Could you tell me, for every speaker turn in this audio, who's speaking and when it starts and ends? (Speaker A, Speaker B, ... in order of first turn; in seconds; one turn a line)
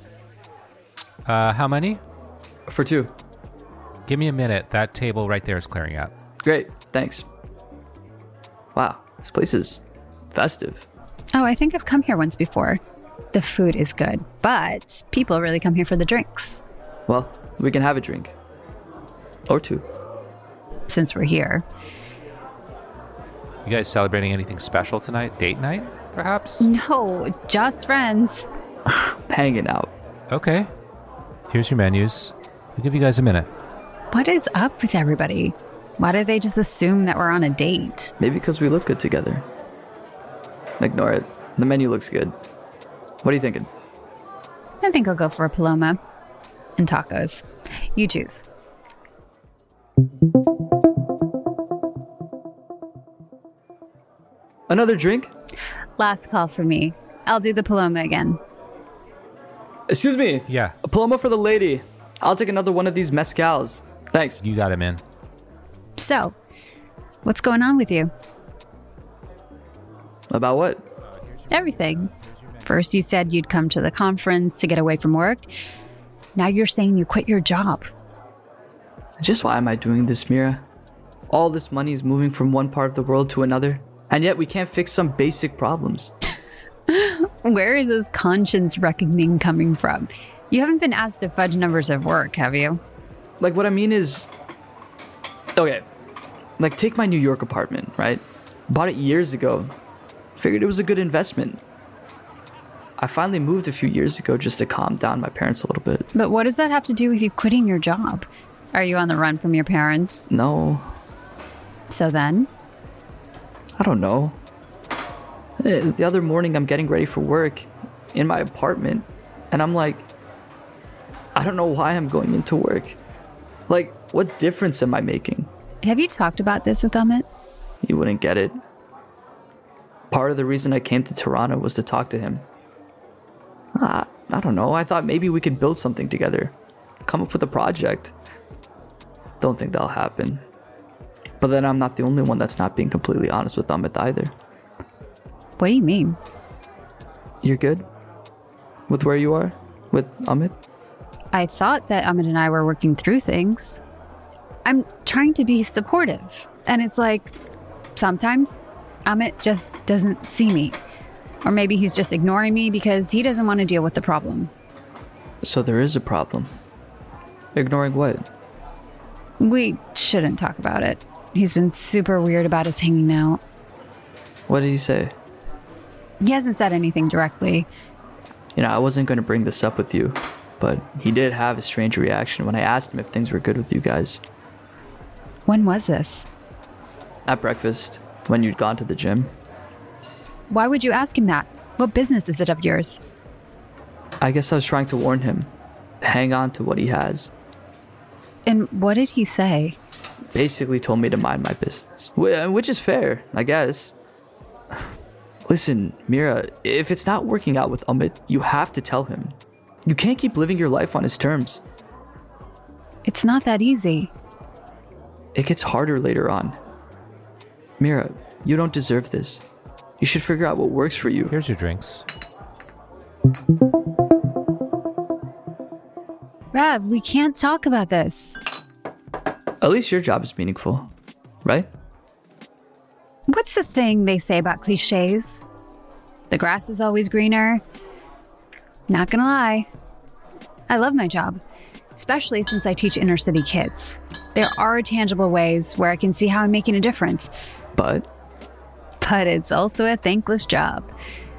Speaker A: 1.3-2.0
Speaker B: 2.7-3.1
Speaker A: 4.1-6.1
Speaker B: 6.4-7.3
Speaker B: 8.8-10.9
Speaker C: 11.3-12.8
Speaker C: 13.3-16.6
Speaker B: 17.1-18.4
Speaker B: 19.5-19.9
Speaker C: 20.9-21.7
Speaker A: 23.6-26.7
Speaker C: 26.6-28.5
Speaker B: 28.9-29.9
Speaker A: 30.3-30.7
Speaker A: 31.5-33.5
Speaker C: 34.1-38.1
Speaker B: 38.2-39.5
Speaker B: 40.8-42.4
Speaker B: 43.2-43.7
Speaker C: 44.8-46.0
Speaker C: 46.8-48.4
Speaker B: 54.7-55.3
Speaker C: 56.0-58.4
Speaker B: 59.9-64.4
Speaker A: 60.5-60.8
Speaker A: 64.4-65.0
Speaker C: 66.0-66.4
Speaker C: 67.2-68.1
Speaker B: 70.3-70.9
Speaker C: 71.5-72.1
Speaker C: 72.6-75.5
Speaker C: 76.4-77.9
Speaker B: 79.2-80.7
Speaker B: 81.3-86.1
Speaker C: 86.9-92.8
Speaker B: 93.4-94.3
Speaker B: 95.6-95.8
Speaker B: 96.6-99.7
Speaker B: 100.4-101.6
Speaker B: 103.0-106.1
Speaker C: 106.1-110.3
Speaker B: 110.3-111.0
Speaker C: 111.9-112.5
Speaker B: 113.8-114.4
Speaker B: 115.6-120.1
Speaker B: 121.3-123.0
Speaker B: 123.7-125.5
Speaker C: 125.8-127.3
Speaker B: 127.8-128.6
Speaker B: 130.1-132.5
Speaker B: 133.8-138.1
Speaker B: 139.4-140.4
Speaker B: 141.4-144.3
Speaker C: 145.6-146.2
Speaker B: 147.4-147.9
Speaker B: 148.9-150.6
Speaker C: 151.3-153.8
Speaker C: 154.7-157.3
Speaker C: 158.0-160.8
Speaker C: 161.4-164.5
Speaker B: 165.4-166.5
Speaker B: 167.6-168.3
Speaker C: 169.4-173.4
Speaker B: 174.5-175.1
Speaker C: 176.2-177.7
Speaker B: 178.6-184.2
Speaker C: 185.5-186.3
Speaker B: 187.3-189.3
Speaker C: 190.5-193.0
Speaker B: 194.2-197.3
Speaker C: 198.5-199.8
Speaker B: 200.3-203.9
Speaker B: 205.5-211.6
Speaker C: 213.1-214.1
Speaker B: 215.3-216.6
Speaker B: 217.8-219.4
Speaker B: 220.0-221.3
Speaker A: 221.3-222.0
Speaker C: 226.5-228.4
Speaker B: 229.6-230.9
Speaker B: 231.4-231.7
Speaker C: 233.3-235.4
Speaker C: 236.3-237.6
Speaker C: 238.9-239.7
Speaker C: 240.7-241.4
Speaker C: 241.9-247.3
Speaker B: 247.8-248.1
Speaker C: 249.0-250.9